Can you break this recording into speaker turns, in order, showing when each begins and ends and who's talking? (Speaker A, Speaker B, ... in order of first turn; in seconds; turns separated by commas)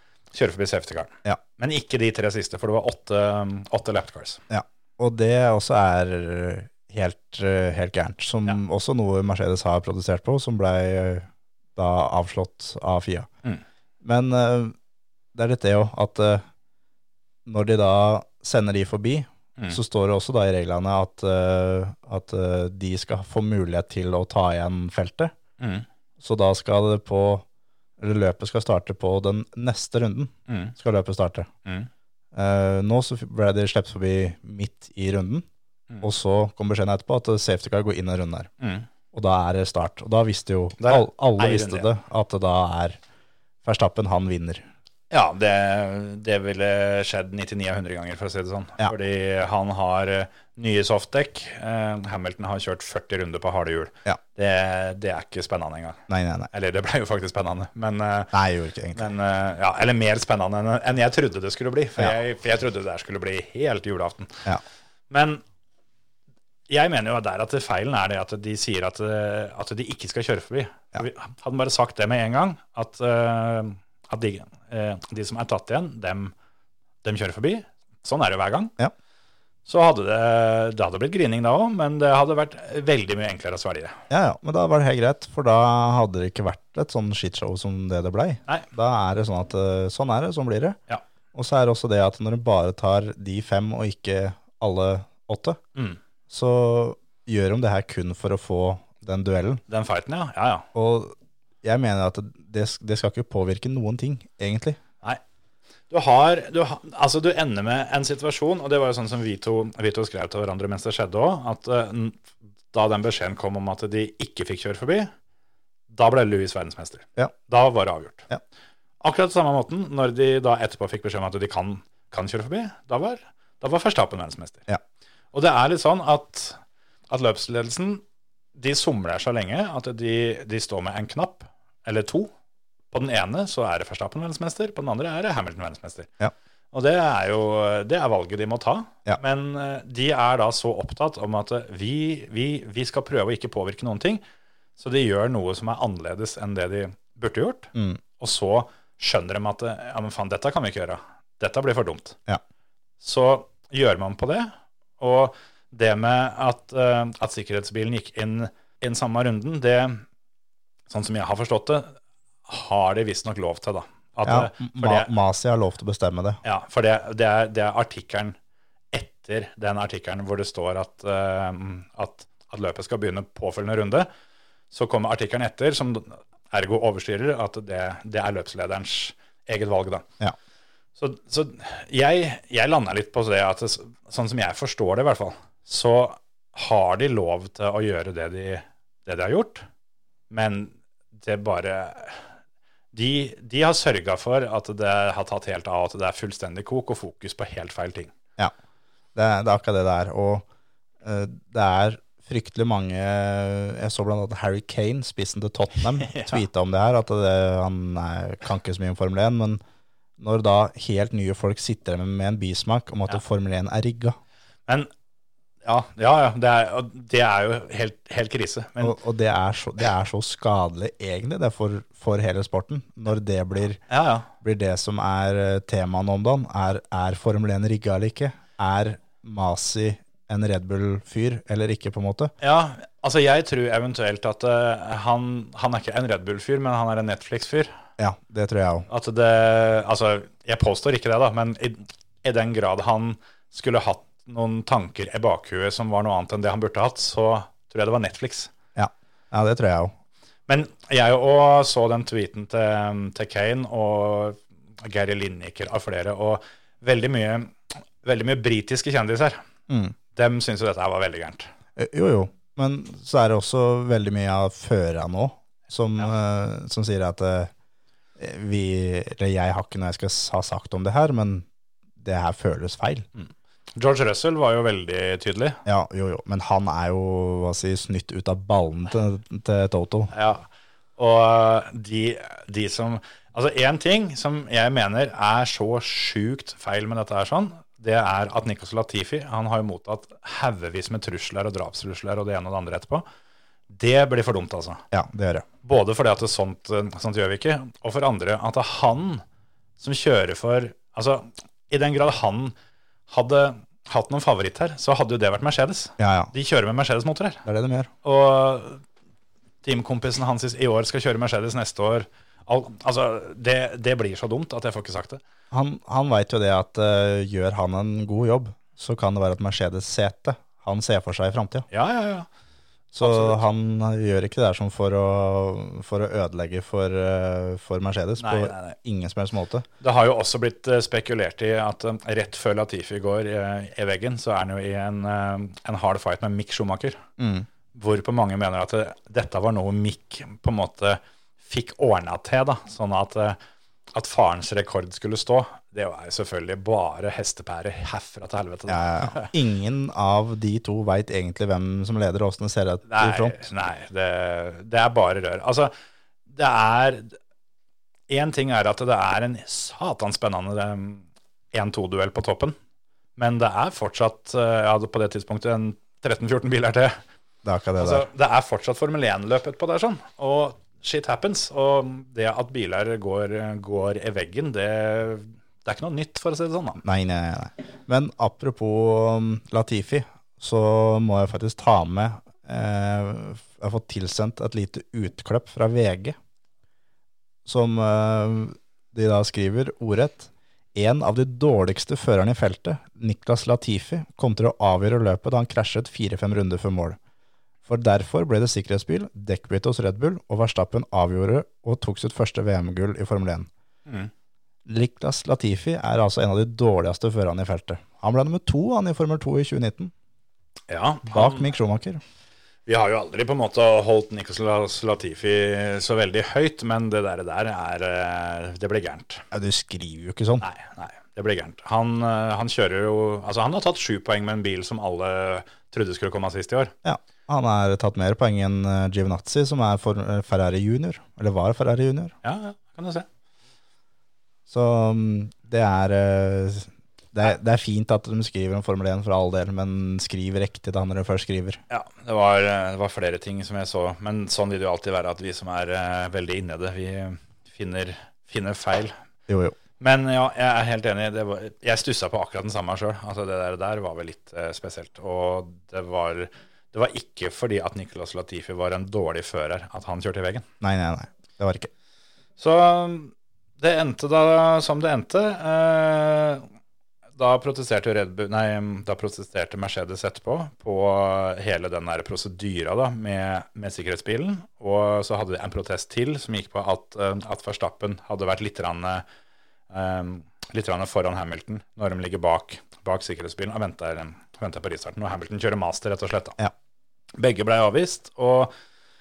Speaker A: 0.3-4.4, Speaker B: 4.5-13.3, Speaker B: 14.0-14.7, Speaker B: 15.3-16.4, Speaker B: 17.4-25.3, Speaker A: 25.6-25.9, Speaker B: 26.2-27.4, Speaker B: 28.0-31.5, Speaker A: 30.5-30.7, Speaker B: 32.3-35.5, Speaker B: 36.0-38.5, Speaker A: 38.6-38.9, Speaker B: 39.1-43.0, Speaker A: 40.8-41.9, Speaker B: 43.6-44.6, Speaker A: 45.1-56.0, Speaker B: 56.1-56.5, Speaker A: 56.5-58.3, Speaker B: 58.3-59.1, Speaker A: 58.9-64.5, Speaker A: 65.1-65.4, Speaker A: 66.7-76.3, Speaker A: 77.0-78.7, Speaker A: 79.7-84.0, Speaker B: 84.1-90.8, Speaker B: 91.3-95.6, Speaker B: 96.3-99.6, Speaker A: 99.7-100.7, Speaker B: 100.7-104.8, Speaker A: 105.9-115.1, Speaker A: 115.9-118.3, Speaker A: 119.0-124.7, Speaker A: 125.3-128.0, Speaker A: 128.5-132.3, Speaker A: 132.9-136.1, Speaker A: 136.7-144.2, Speaker A: 144.8-152.2, Speaker B: 147.7-148.0, Speaker A: 153.0-160.0, Speaker A: 160.9-161.9, Speaker A: 162.5-165.1, Speaker B: 164.2-166.4, Speaker A: 166.4-168.3, Speaker A: 168.9-174.1, Speaker A: 174.7-180.1, Speaker A: 181.0-189.6, Speaker A: 190.3-192.3, Speaker A: 192.9-198.1, Speaker B: 199.1-200.4, Speaker B: 201.0-209.6, Speaker A: 206.0-206.4, Speaker B: 210.2-214.2, Speaker A: 215.6-219.0, Speaker B: 218.8-223.8, Speaker A: 223.9-224.3, Speaker B: 224.4-232.3, Speaker A: 232.4-237.7, Speaker B: 238.0-238.9, Speaker A: 238.9-248.5, Speaker B: 248.8-249.9, Speaker A: 250.5-259.4, Speaker B: 259.7-259.9, Speaker A: 260.1-261.5, Speaker B: 261.8-267.5, Speaker B: 268.2-271.4, Speaker B: 272.0-273.1, Speaker A: 273.1-275.6, Speaker B: 275.6-280.1, Speaker A: 280.1-280.4, Speaker A: 281.0-293.0, Speaker A: 293.7-294.8, Speaker B: 294.9-295.4, Speaker A: 295.6-299.2, Speaker A: 299.8-302.5, Speaker A: 303.1-307.4, Speaker B: 306.0-306.3, Speaker B: 307.4-307.9, Speaker A: 308.0-308.8, Speaker A: 309.6-315.2, Speaker B: 315.5-321.6, Speaker A: 321.7-322.3, Speaker B: 322.9-329.6, Speaker A: 323.0-323.4, Speaker A: 328.2-328.8, Speaker A: 329.8-337.0, Speaker B: 337.2-337.5, Speaker A: 337.7-343.4, Speaker A: 343.9-349.3, Speaker B: 348.7-353.4, Speaker A: 352.9-355.7, Speaker A: 356.3-357.2, Speaker A: 358.1-362.6, Speaker A: 363.2-367.0, Speaker B: 367.4-368.1, Speaker A: 367.8-376.8, Speaker B: 376.8-386.1, Speaker B: 387.4-397.0, Speaker B: 397.6-403.5, Speaker A: 403.9-404.1, Speaker B: 404.6-409.9, Speaker A: 410.7-411.5, Speaker B: 411.1-412.0, Speaker A: 412.7-419.2, Speaker B: 419.3-420.4, Speaker A: 420.4-426.7, Speaker B: 426.8-432.1, Speaker A: 432.2-433.1, Speaker B: 434.5-441.6, Speaker A: 441.7-448.9, Speaker B: 449.3-449.6, Speaker A: 449.8-460.4, Speaker B: 460.6-461.7, Speaker A: 462.4-466.5, Speaker A: 467.2-479.0, Speaker A: 479.7-486.4, Speaker A: 487.2-488.5